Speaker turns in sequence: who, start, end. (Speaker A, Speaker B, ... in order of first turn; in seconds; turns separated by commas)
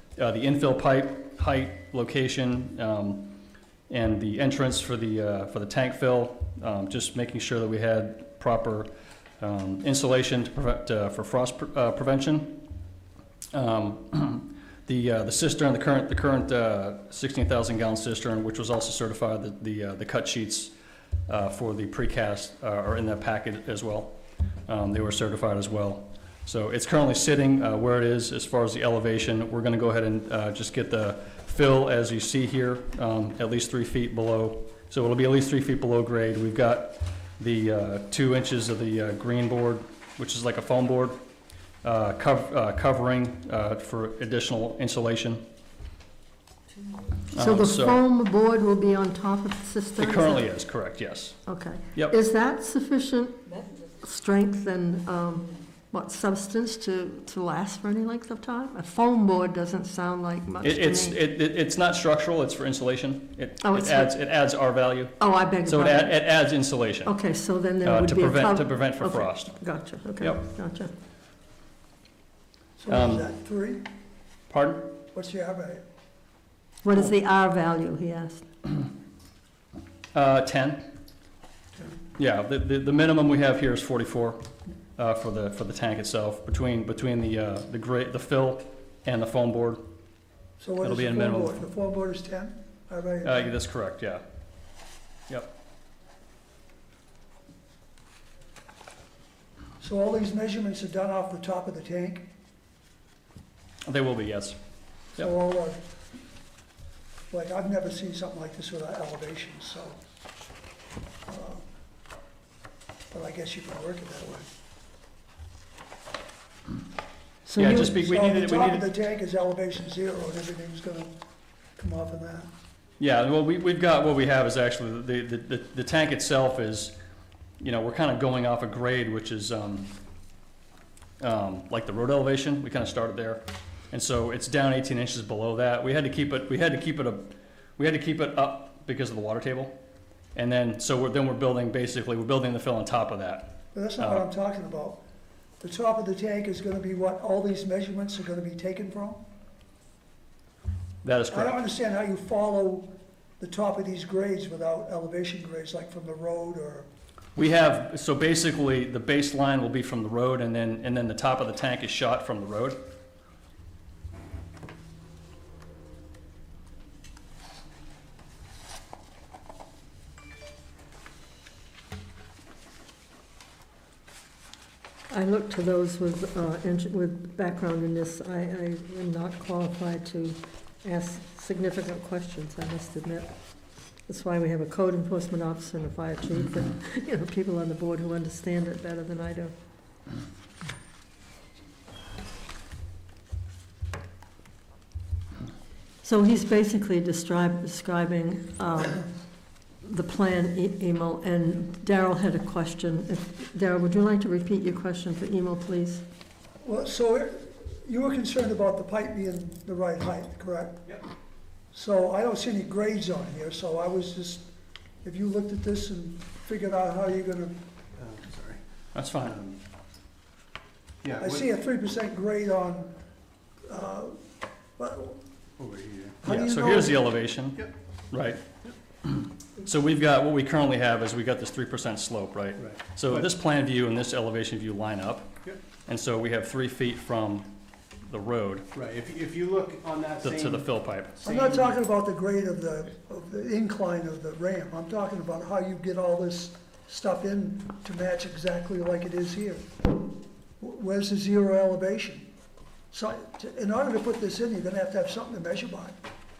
Speaker A: 0.2-3.4, Speaker A: 3.9-12.7, Speaker A: 13.5-20.7, Speaker A: 21.3-41.2, Speaker A: 41.8-45.5, Speaker B: 47.3-50.5, Speaker A: 47.3-48.0, Speaker A: 50.0-51.4, Speaker B: 51.5-61.2, Speaker A: 60.6-67.2, Speaker B: 63.6-64.2, Speaker B: 65.2-66.2, Speaker B: 67.0-70.9, Speaker A: 67.8-69.6, Speaker A: 70.2-70.4, Speaker C: 72.8-73.9, Speaker A: 72.9-73.3, Speaker A: 74.5-74.9, Speaker C: 75.1-75.8, Speaker B: 76.8-78.5, Speaker A: 80.1-80.9, Speaker A: 82.2-89.8, Speaker C: 90.6-93.5, Speaker A: 90.8-91.6, Speaker A: 93.2-94.2, Speaker C: 99.8-102.3, Speaker A: 103.9-104.6, Speaker C: 105.2-105.8, Speaker C: 107.3-110.0, Speaker C: 111.3-111.7, Speaker C: 113.1-114.5, Speaker B: 117.5-117.9, Speaker C: 117.5-121.1, Speaker A: 117.6-118.9, Speaker C: 121.8-122.5, Speaker A: 123.0-127.0, Speaker A: 127.6-130.0, Speaker A: 131.2-139.8, Speaker A: 140.3-144.3, Speaker C: 143.7-145.0, Speaker C: 145.6-149.2, Speaker A: 151.0-151.6, Speaker C: 151.3-156.9, Speaker A: 157.4-162.8, Speaker B: 175.1-183.3, Speaker B: 184.1-189.5, Speaker B: 196.0-199.1, Speaker B: 199.8-206.0, Speaker C: 206.6-210.9, Speaker C: 211.7-214.5, Speaker C: 215.0-217.6, Speaker D: 218.0-218.6, Speaker A: 218.9-219.4, Speaker D: 219.2-219.6, Speaker D: 221.0-221.4, Speaker C: 221.2-222.9, Speaker C: 223.7-224.2, Speaker C: 224.8-225.2, Speaker D: 225.6-226.2, Speaker C: 226.2-227.0, Speaker A: 226.2-228.5, Speaker A: 229.1-235.3, Speaker D: 232.6-233.3, Speaker A: 235.9-238.7, Speaker D: 238.7-241.8, Speaker A: 240.2-241.2, Speaker C: 241.2-249.9, Speaker C: 250.6-252.3, Speaker C: 252.9-256.0